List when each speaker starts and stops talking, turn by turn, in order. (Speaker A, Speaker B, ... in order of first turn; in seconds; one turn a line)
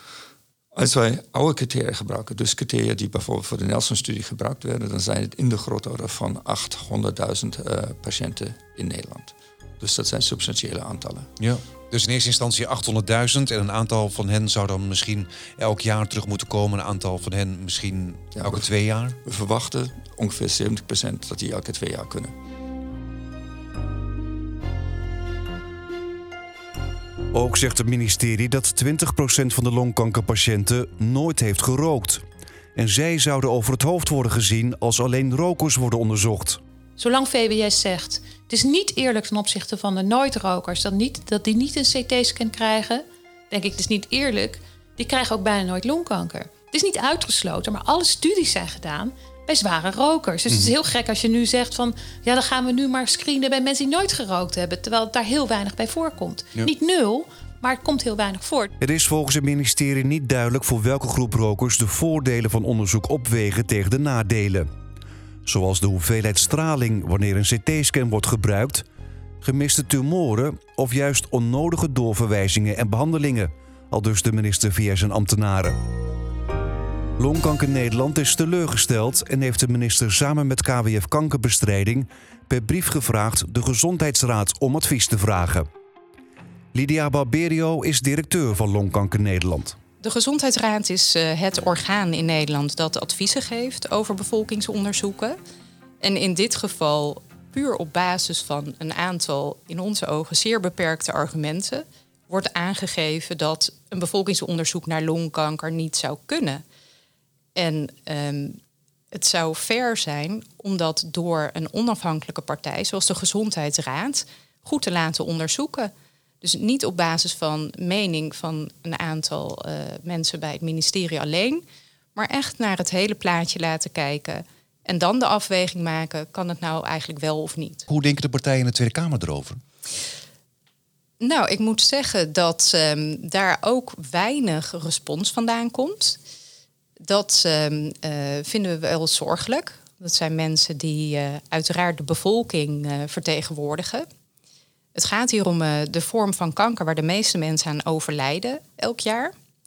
Speaker A: 0.7-11.3
Speaker B: 11.4-19.1
Speaker A: 18.3-18.7
Speaker A: 19.2-22.3
Speaker C: 27.3-32.2
Speaker C: 32.8-36.6
Speaker D: 37.0-58.7
Speaker C: 58.8-64.7
Speaker C: 65.5-68.8
Speaker C: 69.4-75.8
Speaker C: 77.2-85.7
Speaker C: 86.7-89.7
Speaker E: 90.0-95.4
Speaker E: 96.0-106.6
Speaker E: 107.5-108.6
Speaker E: 109.1-115.9
Speaker E: 116.4-121.6
Speaker E: 122.1-127.8
Speaker B: 127.9-129.6
Speaker E: 131.2-136.2
Speaker E: 137.0-144.1
Speaker E: 144.9-149.3